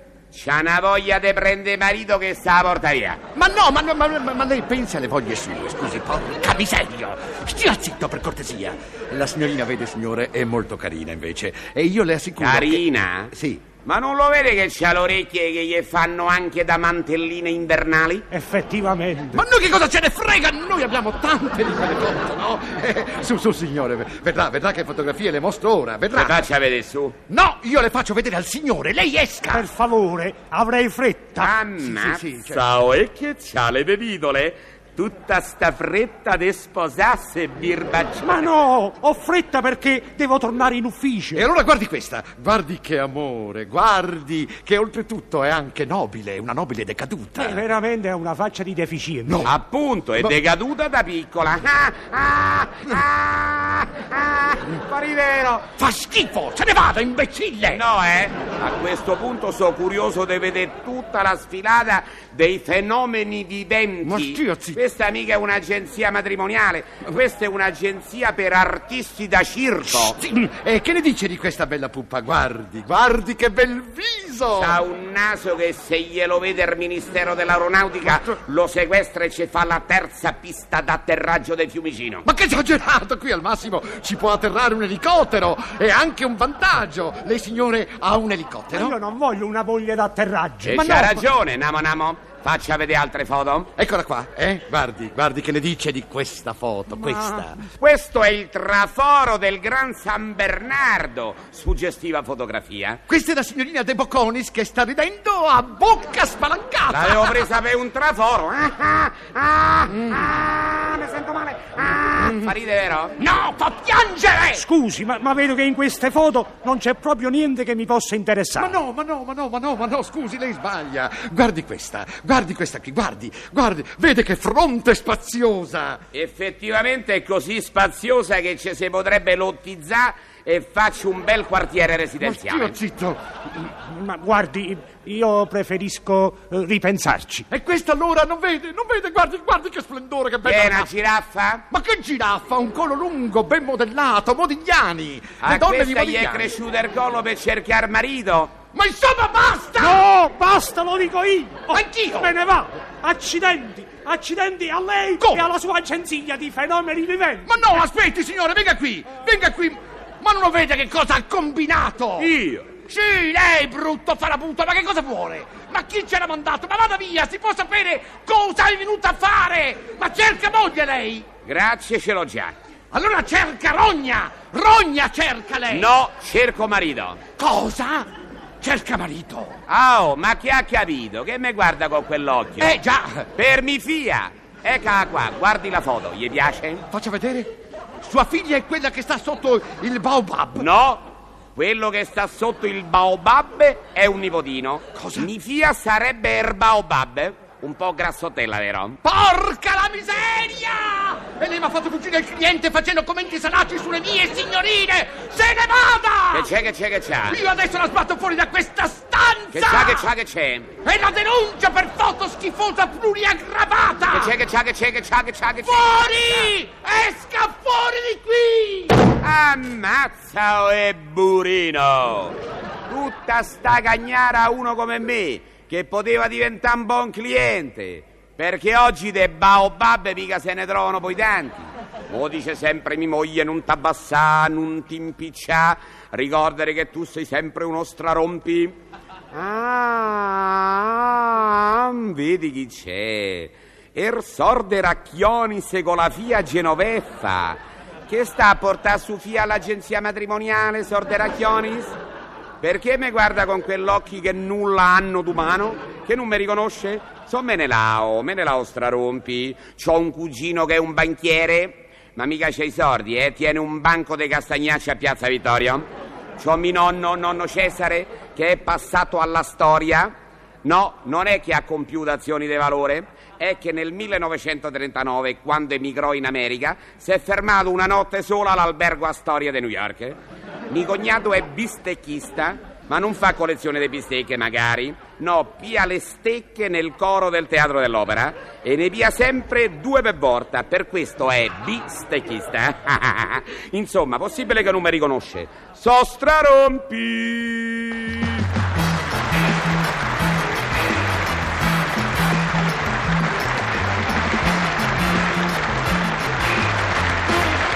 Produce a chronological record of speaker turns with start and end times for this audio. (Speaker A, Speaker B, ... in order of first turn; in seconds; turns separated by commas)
Speaker A: 0.3-3.2, Speaker B: 3.3-13.6, Speaker A: 12.4-18.2, Speaker C: 18.3-19.4, Speaker B: 19.3-26.5, Speaker A: 26.1-27.1, Speaker B: 27.3-29.7, Speaker C: 29.5-31.5, Speaker A: 31.4-38.5, Speaker B: 31.8-32.6, Speaker C: 38.2-41.4, Speaker B: 41.3-47.6, Speaker C: 47.4-49.4, Speaker B: 49.2-49.5, Speaker A: 49.4-55.7, Speaker B: 55.8-57.8, Speaker A: 57.7-70.2, Speaker B: 64.0-64.8, Speaker B: 69.9-74.8, Speaker A: 74.5-82.2, Speaker B: 82.2-89.0, Speaker C: 88.7-90.8, Speaker A: 90.6-93.7, Speaker B: 90.7-91.3, Speaker B: 93.8-97.6, Speaker A: 97.7-103.0, Speaker B: 103.1-107.5, Speaker A: 106.9-113.2, Speaker B: 109.9-110.2, Speaker B: 112.2-112.5, Speaker B: 113.2-114.7, Speaker C: 114.5-118.8, Speaker B: 118.5-126.0, Speaker A: 126.1-132.8, Speaker B: 132.2-133.2, Speaker C: 133.7-137.4, Speaker B: 137.5-140.9, Speaker A: 140.4-141.6, Speaker B: 141.7-146.5, Speaker A: 145.4-148.6, Speaker B: 148.7-150.1, Speaker C: 149.8-157.5, Speaker B: 151.7-152.3, Speaker B: 155.2-155.5, Speaker B: 157.4-171.3, Speaker A: 162.2-162.7, Speaker A: 171.4-172.5, Speaker B: 172.9-175.9, Speaker A: 175.7-177.2, Speaker B: 177.4-178.1, Speaker B: 178.6-179.6, Speaker A: 179.7-182.8, Speaker B: 182.6-183.3, Speaker A: 183.3-186.8, Speaker B: 186.9-187.5, Speaker B: 188.0-190.7, Speaker A: 190.5-199.0, Speaker B: 194.9-195.3, Speaker B: 199.0-206.5, Speaker A: 206.3-207.4, Speaker B: 207.3-210.1, Speaker A: 209.5-210.7, Speaker B: 210.8-214.4, Speaker A: 214.1-216.5, Speaker B: 215.6-219.1, Speaker A: 219.1-222.4, Speaker A: 222.9-238.8, Speaker A: 239.3-252.0, Speaker A: 252.6-280.2, Speaker A: 280.7-298.4